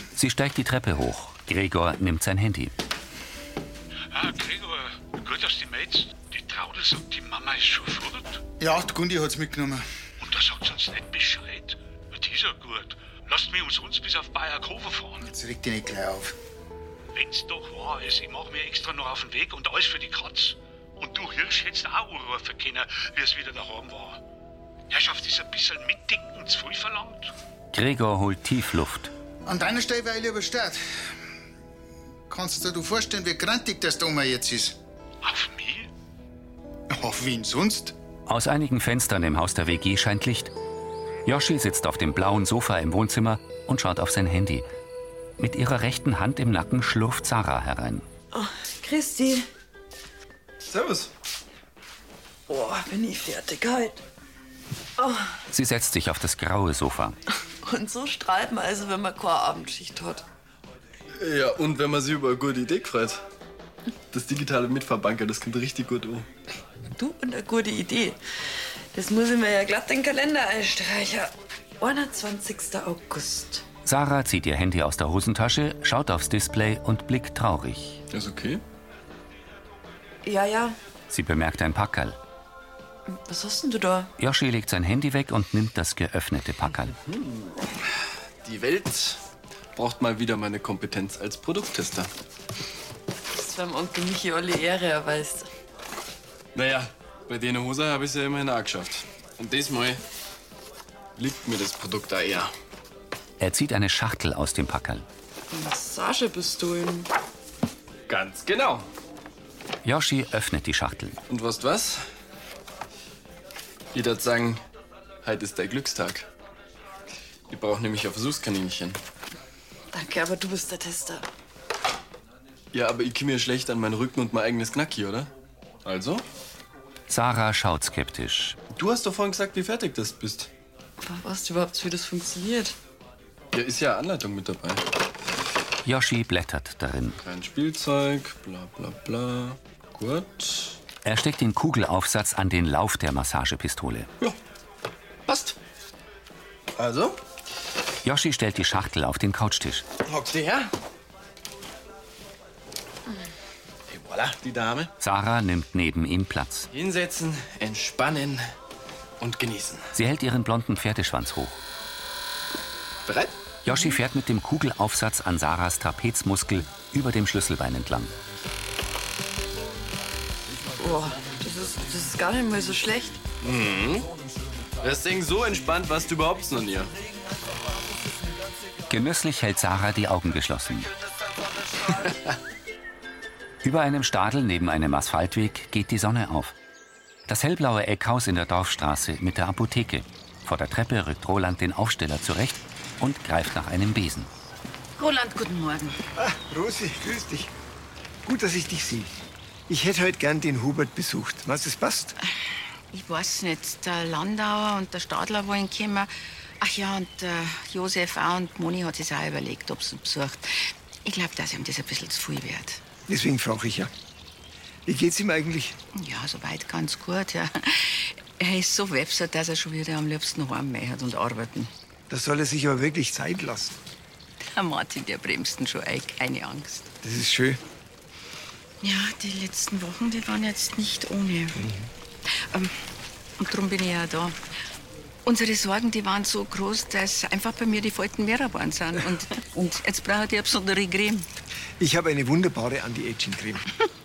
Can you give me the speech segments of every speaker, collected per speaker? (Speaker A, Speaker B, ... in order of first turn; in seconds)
Speaker A: 0.2-2.7, 27.7-29.1, 38.3-40.5, 41.3-44.7, 45.4-48.0, 55.5-57.2, 73.8-78.0, 81.1-82.2, 84.2-86.9, 103.4-105.0, 109.8-111.2, 127.1-128.6, 135.8-137.2, 141.1-144.1, 148.0-149.8, 155.0-156.7, 159.9-161.6, 163.6-168.1, 178.9-180.9, 183.6-186.5, 187.3-194.3
Speaker B: 4.1-8.4, 10.2-15.2, 17.1-24.2, 24.9-27.3, 35.2-35.9
Speaker C: 8.6-9.8, 15.2-16.3, 29.5-30.8, 32.3-34.8, 36.9-38.0
Speaker D: 48.3-49.5, 52.5-54.0, 55.0-55.3, 57.6-60.2, 67.0-68.2, 68.9-73.7, 80.2-80.8, 83.1-84.1, 93.3-95.5, 105.5-107.1, 119.9-121.3, 131.0-132.8, 170.8-173.2
Speaker E: 50.7-51.1, 61.2-63.2, 64.1-66.3, 78.1-78.6, 87.1-87.5, 88.4-89.2, 89.8-92.1, 96.5-100.0, 101.2-102.5, 108.1-108.9, 111.3-112.0, 113.9-114.6, 115.2-116.3, 117.5-119.0, 122.7-125.3, 125.8-126.2, 128.7-130.5, 133.5-134.8, 137.2-140.8, 145.3-145.6, 146.8-147.2, 150.0-150.7, 153.9-154.9, 156.7-158.5, 159.2-159.9, 163.1-163.4, 173.4-174.1, 174.8-176.9
Speaker F: 195.0-196.0, 202.9-212.8, 215.9-221.7, 224.4-226.9, 228.8-231.6, 232.3-232.8, 233.4-234.4, 235.2-241.3
Speaker G: 196.2-197.5, 198.2-199.1, 199.7-202.2, 213.1-213.9, 214.9-215.8, 222.1-223.8, 227.0-227.6, 231.6-231.9, 241.8-243.6